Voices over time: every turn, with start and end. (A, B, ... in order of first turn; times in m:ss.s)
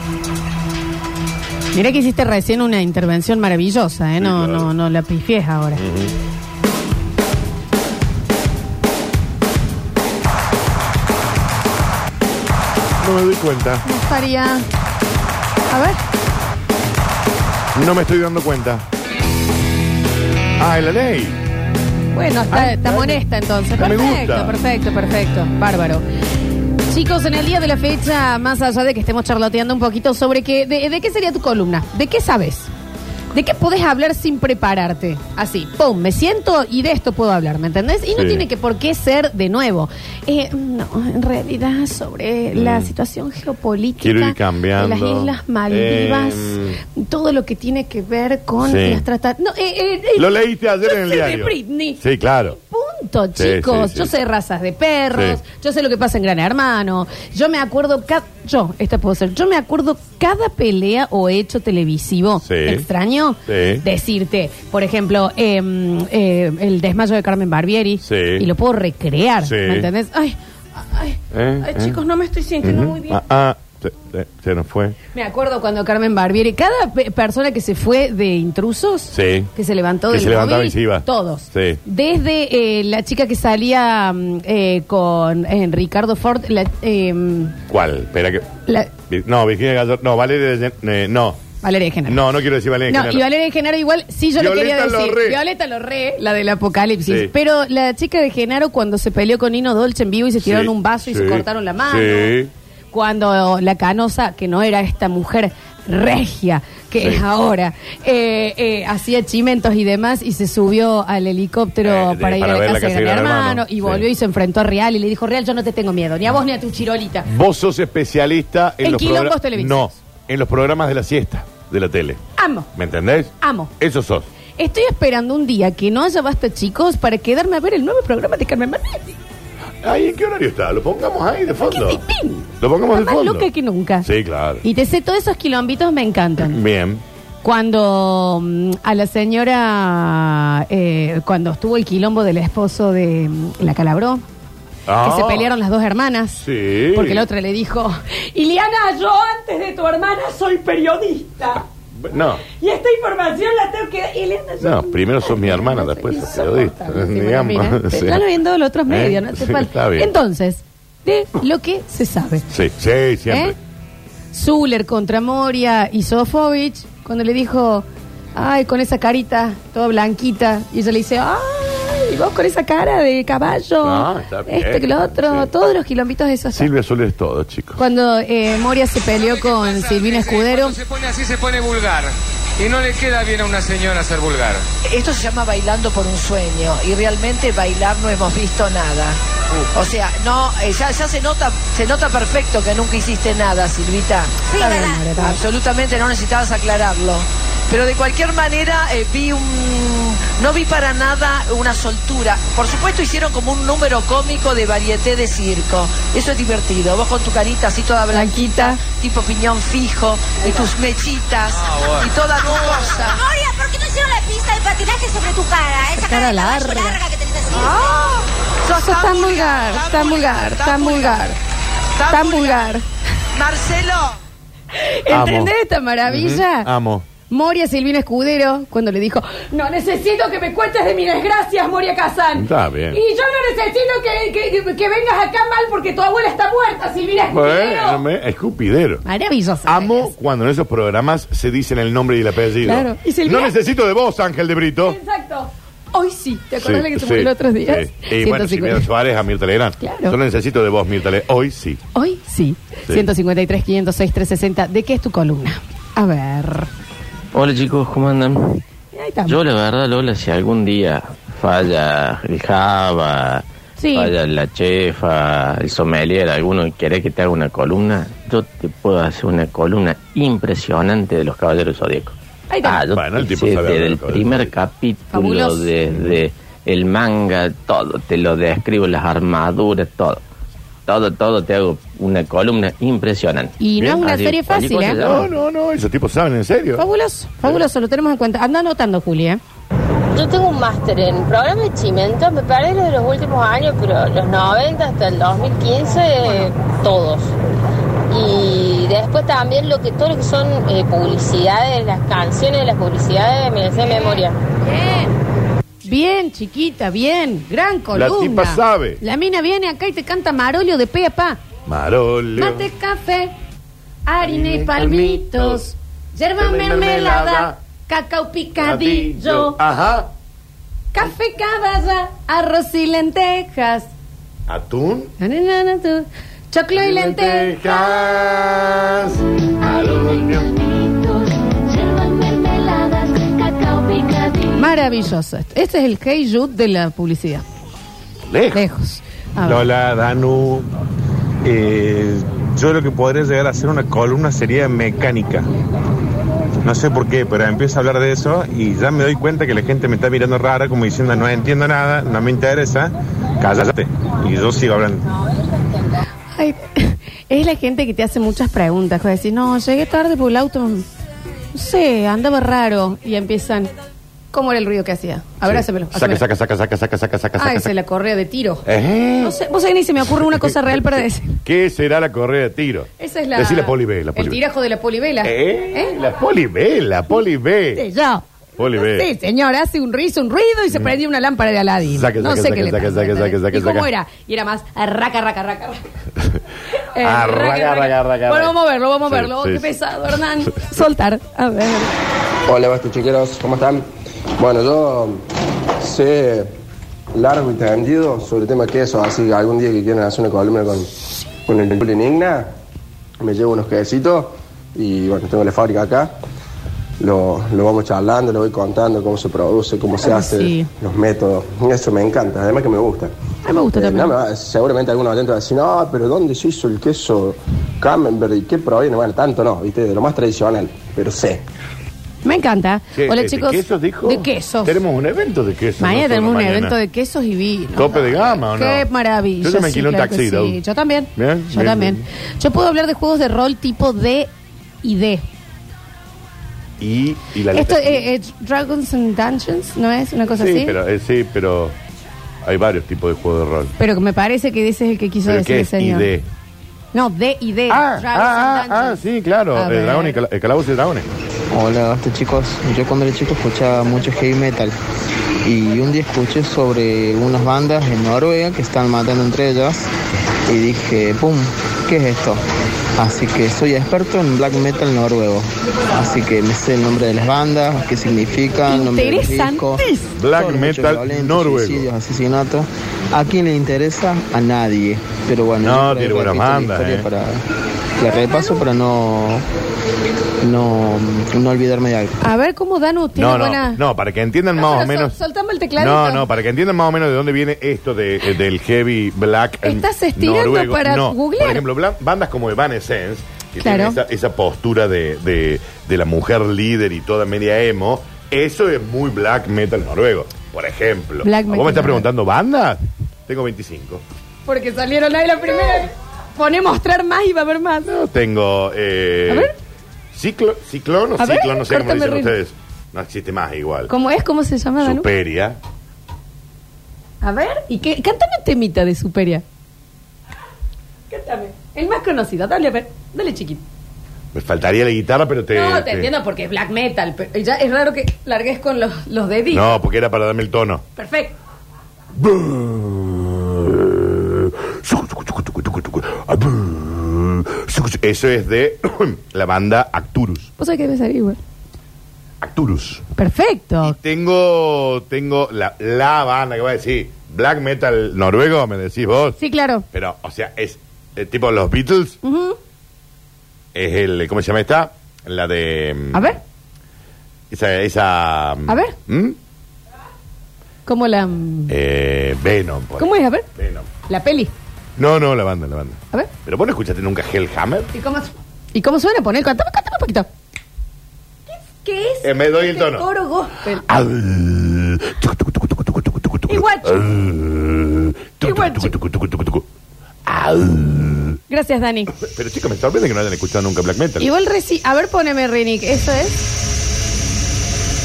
0:01.7-0:05.8 A
0:04.2-0:04.7 B
0:05.8-0:06.1 B
0:13.0-0:13.8 B
0:13.8-0:14.6 A
0:15.7-0:16.0 A
0:17.7-0:18.8 B
0:20.6-0:21.4 B
0:22.1-0:26.0 A
0:22.5-0:23.2 B
0:23.8-0:24.5 B
0:26.9-0:32.7 A
0:33.3-0:52.0 A
0:38.1-0:38.4 B
0:42.5-0:42.9 B
0:44.0-0:46.8 B
0:48.6-0:49.0 B
0:50.2-0:52.6 B
0:52.5-1:13.2 A
0:53.4-0:54.1 B
0:55.1-0:55.4 B
1:02.4-1:02.8 B
1:03.5-1:03.8 B
1:08.0-1:08.5 B
1:09.4-1:09.9 B
1:11.3-1:12.0 B
1:12.6-1:14.9 B
1:15.1-1:27.5 A
1:19.1-1:19.5 B
1:20.1-1:21.8 B
1:27.7-1:28.5 B
1:28.7-1:28.9 A
1:29.1-1:31.4 B
1:31.6-1:32.2 A
1:32.0-1:33.2 B
1:32.9-1:42.3 A
1:34.4-1:35.4 B
1:40.4-1:42.5 B
1:42.9-1:57.2 A
1:51.8-1:54.0 B
1:57.2-2:02.2 B
1:58.8-2:00.0 A
2:02.4-2:02.7 A
2:02.7-2:04.3 B
2:03.4-2:03.7 A
2:04.6-2:09.2 A
2:09.8-2:12.0 B
2:11.6-2:14.1 A
2:12.6-2:13.4 B
2:14.0-2:14.6 B
2:14.6-2:16.6 A
2:16.4-2:17.0 B
2:17.4-2:24.2 A
2:24.9-2:25.5 B
2:25.0-2:26.4 A
2:26.4-2:27.2 B
2:26.9-2:31.6 A
2:31.9-2:32.4 B
2:32.5-2:42.4 A
2:34.6-2:38.2 B
2:38.9-2:40.1 B
2:42.5-2:43.5 B
2:43.3-2:43.5 A
2:44.3-2:47.8 A
2:48.4-2:56.7 A
2:53.8-2:55.5 B
2:56.5-2:57.8 B
2:57.8-3:00.8 A
2:59.1-3:04.6 C
3:04.8-3:09.2 D
3:09.7-3:33.2 D
3:14.5-3:15.4 A
3:28.1-3:28.8 A
3:31.6-3:32.1 C
3:33.2-3:37.7 E
3:35.9-3:37.0 A
3:37.5-3:41.2 D
3:37.6-3:37.8 A
3:38.7-3:41.4 A
3:41.9-3:42.7 D
3:42.1-3:42.8 A
3:43.3-3:44.1 D
3:44.7-3:46.7 A
3:45.1-3:45.5 B
3:46.1-3:47.0 B
3:47.3-3:58.0 A
3:52.4-3:53.0 B
3:57.3-3:59.0 B
3:59.0-4:00.1 A
3:59.6-4:05.0 B
4:02.6-4:03.5 A
4:04.8-4:08.8 A
4:06.6-4:11.8 B
4:09.8-4:10.1 A
4:11.9-4:16.7 A
4:17.3-4:18.6 F
4:18.9-4:19.4 A
4:19.3-4:40.2 F
4:23.8-4:24.1 A
4:32.5-4:32.8 A
4:32.9-4:34.6 B
4:35.1-4:36.0 A
4:40.9-4:45.3 F
4:43.6-4:45.2 A
4:44.9-4:46.8 B
4:46.8-4:49.4 A
4:50.1-4:57.3 G
4:58.1-5:04.4 G
5:03.8-5:05.2 A
5:05.8-5:11.4 A
5:07.9-5:09.0 B
5:11.6-5:12.7 B
5:12.4-5:13.3 A
5:14.1-5:19.6 A
5:14.2-5:15.6 B
5:16.4-5:17.5 B
5:18.6-5:20.0 B
5:20.9-5:23.9 A
5:24.5-5:25.1 B
5:25.2-5:27.8 A
5:26.7-5:30.6 B
5:31.7-5:34.5 E
5:34.5-5:37.4 A
5:38.3-5:38.6 B
5:38.5-5:39.6 A
5:39.4-5:40.7 H
5:41.4-5:45.5 H
5:46.6-5:55.0 H
5:56.4-6:00.8 A
6:01.5-6:03.7 A
6:04.3-6:06.2 A
6:05.4-6:07.7 B
6:07.4-6:08.6 A
6:08.6-6:09.4 B
6:09.2-6:11.4 A
6:10.1-6:14.4 B
6:13.0-6:16.0 A
6:15.2-6:17.8 B
6:17.7-6:25.8 A
6:18.6-6:19.1 B
6:21.9-6:23.9 B
6:26.9-6:31.9 A
6:27.0-6:28.5 B
6:29.1-6:29.7 B
6:32.5-6:33.8 I
6:34.4-6:35.2 I
6:35.8-6:36.5 I
6:37.1-6:40.9 I
6:41.5-6:42.5 I
6:43.2-6:46.1 I
6:47.0-6:53.1 I
6:50.0-6:50.7 A
6:53.4-6:54.1 A
6:53.7-7:01.4 I
7:02.2-7:04.7 A
7:02.9-7:06.7 B
7:05.8-7:14.3 A
7:07.7-7:08.8 B
7:09.4-7:10.6 B
7:11.2-7:12.0 B
7:14.8-7:15.2 A
7:16.8-7:18.0 B
7:17.5-7:20.8 A
7:20.4-7:21.7 B
7:22.4-7:23.7 B
7:23.8-7:26.1 A
7:25.2-7:26.2 B
7:26.9-7:29.0 A
7:27.7-7:31.1 B
7:29.5-7:30.2 A
7:31.5-7:34.8 J
7:35.4-7:39.9 J
7:40.5-7:42.4 J
7:43.0-7:57.4 J
7:48.7-7:50.1 A
7:50.2-7:51.9 B
7:55.6-7:57.1 B
7:58.0-7:59.4 J
8:00.4-8:02.2 J
8:02.2-8:03.8 A
8:03.2-8:05.1 B
8:04.6-8:06.2 A
8:05.8-8:24.0 B
8:09.6-8:11.6 A
8:13.6-8:14.0 A
8:21.2-8:22.0 A
8:24.4-8:27.9 A
8:27.8-8:29.5 B
8:30.1-8:33.9 B
8:31.2-8:32.3 A
8:33.9-8:35.0 A
8:34.8-8:35.6 B
8:37.2-8:39.4 A
8:41.1-8:43.6 A
8:44.3-8:46.1 B
8:45.5-8:49.8 A
8:49.5-8:50.8 B
8:51.0-8:51.3 A
8:52.2-9:00.5 B
9:00.6-9:01.4 A
9:02.4-9:03.0 B
9:03.2-9:03.9 A
9:03.8-9:09.4 B
9:09.4-9:09.8 A
9:09.9-9:12.2 B
9:12.2-9:12.6 A
9:13.7-9:16.4 B
9:16.1-9:16.4 A
9:17.5-9:19.4 B
9:18.7-9:18.9 A
9:20.8-9:21.7 A
9:21.7-9:23.9 B
9:23.0-9:23.4 A
9:24.1-9:24.5 A
9:25.0-9:27.9 B
9:27.9-9:30.3 A
9:31.5-9:33.8 A
9:32.2-9:33.1 B
9:33.8-9:39.6 B
9:36.5-9:37.1 A
9:38.4-9:38.9 A
9:40.2-9:41.4 B
9:41.5-9:42.1 A
9:42.2-9:44.3 B
9:44.2-9:46.4 A